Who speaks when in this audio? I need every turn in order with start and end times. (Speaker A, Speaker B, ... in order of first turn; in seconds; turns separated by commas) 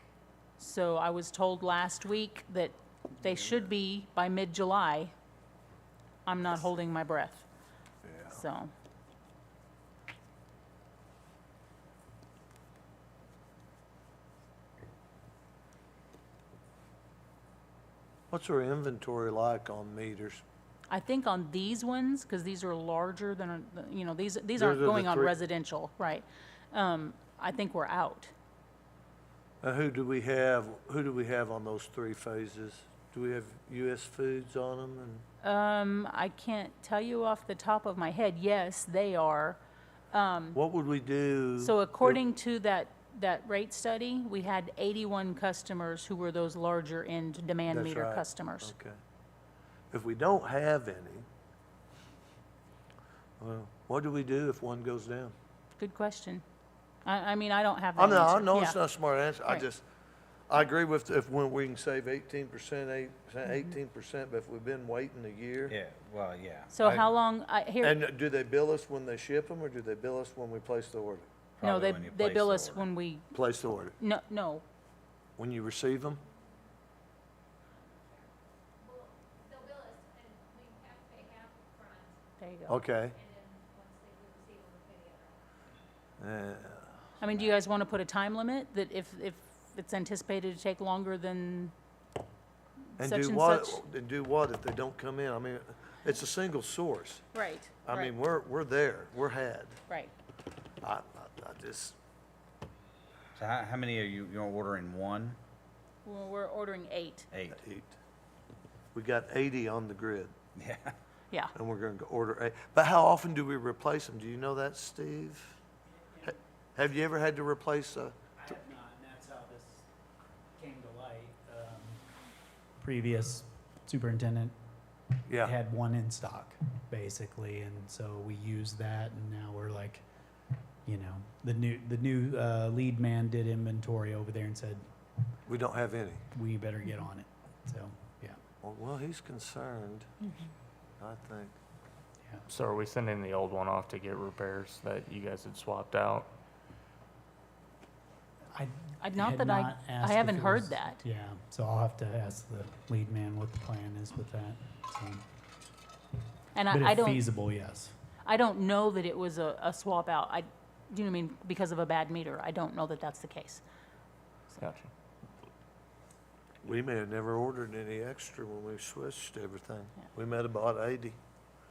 Speaker A: 0.6-5.1, Speaker A: 6.2-7.5, Speaker A: 8.2-8.7, Speaker B: 18.3-20.4, Speaker A: 20.9-28.3, Speaker B: 24.6-25.3, Speaker B: 29.6-35.2, Speaker A: 35.4-39.6, Speaker A: 40.1-40.6, Speaker B: 40.5-42.2, Speaker A: 41.6-48.8, Speaker B: 47.7-49.0, Speaker B: 49.9-51.3, Speaker B: 53.4-55.3, Speaker A: 55.8-56.4, Speaker A: 57.0-58.8, Speaker B: 58.0-59.8, Speaker B: 60.5-65.8, Speaker C: 65.7-67.1, Speaker A: 66.7-68.0, Speaker B: 67.8-71.3, Speaker C: 71.6-72.9, Speaker A: 71.6-73.3, Speaker B: 73.3-74.0, Speaker A: 74.0-74.6, Speaker B: 75.4-76.2, Speaker D: 77.6-82.2, Speaker A: 82.4-82.8, Speaker B: 82.7-83.2, Speaker D: 83.1-85.4, Speaker B: 86.2-87.0, Speaker A: 87.2-91.7, Speaker A: 93.0-93.8, Speaker B: 93.0-97.2, Speaker A: 97.3-98.1, Speaker B: 97.8-99.8, Speaker B: 100.8-102.0, Speaker C: 103.3-105.4, Speaker A: 106.0-107.3, Speaker C: 107.3-107.6, Speaker B: 107.6-107.9, Speaker B: 108.9-110.3, Speaker C: 110.6-111.0, Speaker B: 111.5-115.6, Speaker E: 116.0-116.4, Speaker B: 116.8-118.2, Speaker E: 118.4-119.9, Speaker E: 120.6-122.0, Speaker E: 122.8-124.5, Speaker B: 125.3-125.5, Speaker E: 125.4-130.0, Speaker E: 130.8-134.8, Speaker B: 135.5-136.2, Speaker E: 136.3-138.4, Speaker B: 138.6-140.1, Speaker B: 141.0-141.5, Speaker F: 142.5-146.3, Speaker E: 148.5-155.2, Speaker A: 149.0-151.0, Speaker A: 156.5-157.2, Speaker E: 156.7-157.9, Speaker A: 158.2-163.6, Speaker F: 164.5-164.9, Speaker B: 166.6-171.2